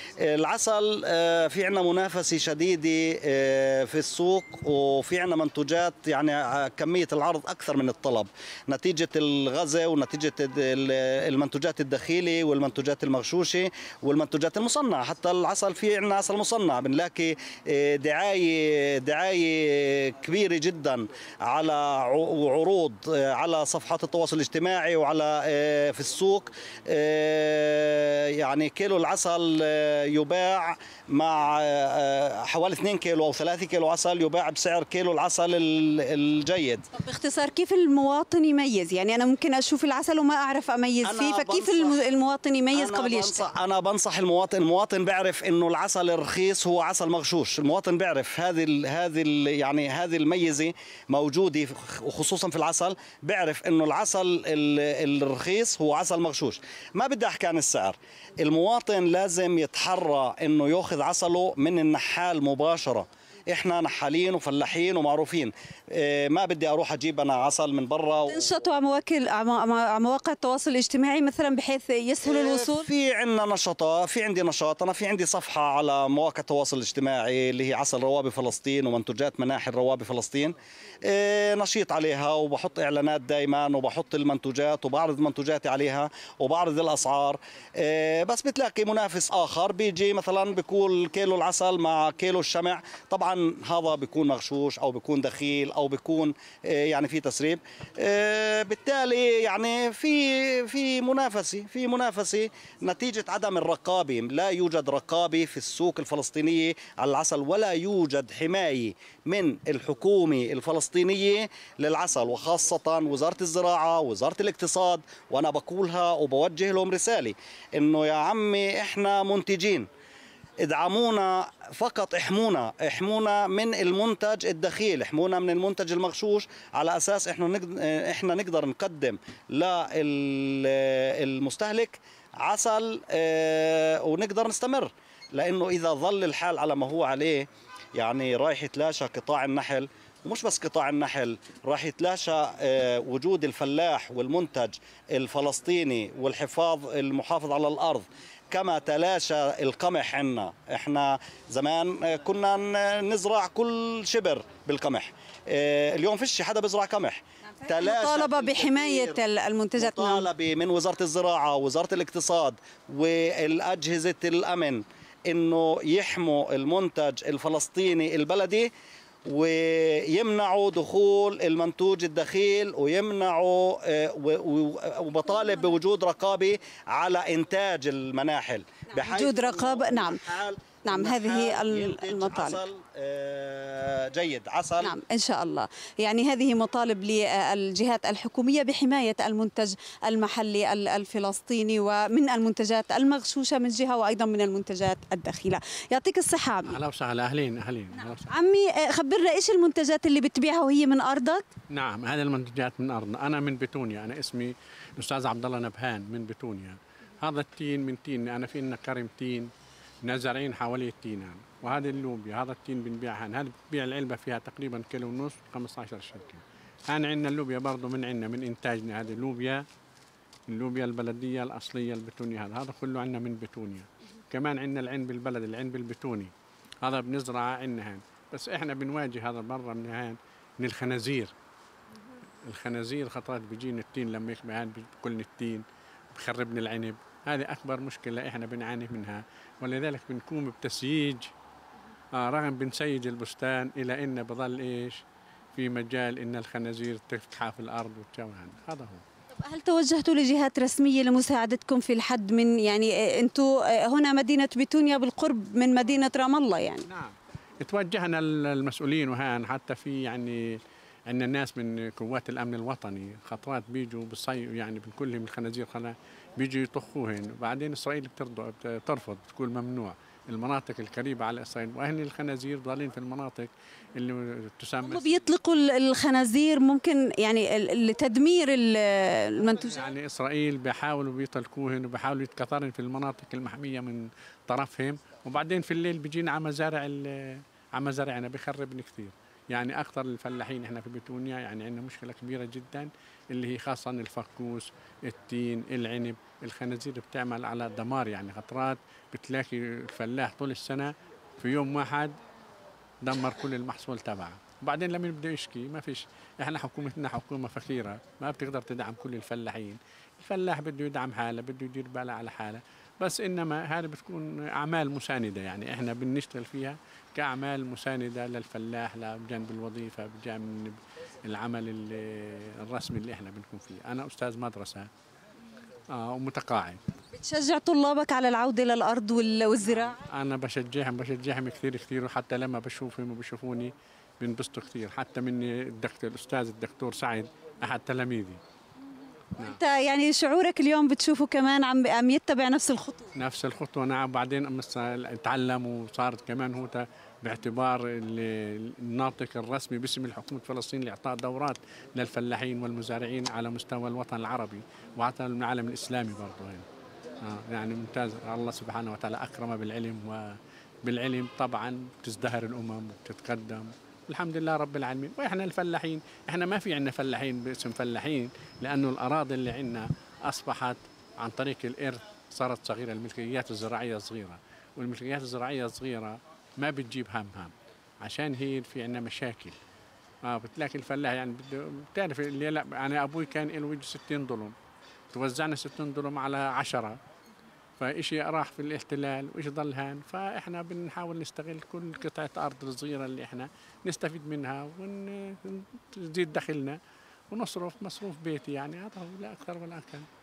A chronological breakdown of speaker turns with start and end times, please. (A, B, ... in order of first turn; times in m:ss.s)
0:00.2-0:36.8 A
0:36.9-0:43.4 B
0:41.0-0:42.0 A
0:42.7-1:08.3 A
1:08.3-1:12.9 B
1:12.2-1:20.5 A
1:21.0-1:59.9 A
2:00.6-2:39.2 A
2:37.6-2:40.2 B
2:39.8-2:48.7 A
2:49.3-3:04.9 A
2:58.9-3:00.2 B
3:00.8-3:02.6 B
3:04.8-3:16.8 B
3:16.7-3:18.3 C
3:18.3-3:21.4 B
3:21.7-3:29.5 C
3:30.0-3:39.6 C
3:40.5-3:46.3 C
3:46.8-3:51.3 C
3:52.4-4:01.3 C
4:02.1-4:05.0 C
4:05.6-4:09.0 C
4:09.3-4:16.8 B
4:16.9-4:35.1 C
4:34.8-4:39.8 B
4:39.7-5:02.2 C
5:03.0-5:24.9 C
5:25.9-5:26.8 C
5:27.1-5:30.0 B
5:30.0-5:38.4 C
5:39.4-5:43.1 B
5:43.2-5:56.6 C
5:57.2-6:19.5 C
6:20.2-6:24.5 C
6:25.1-6:27.0 C
6:27.8-6:36.8 C
6:37.3-6:40.1 C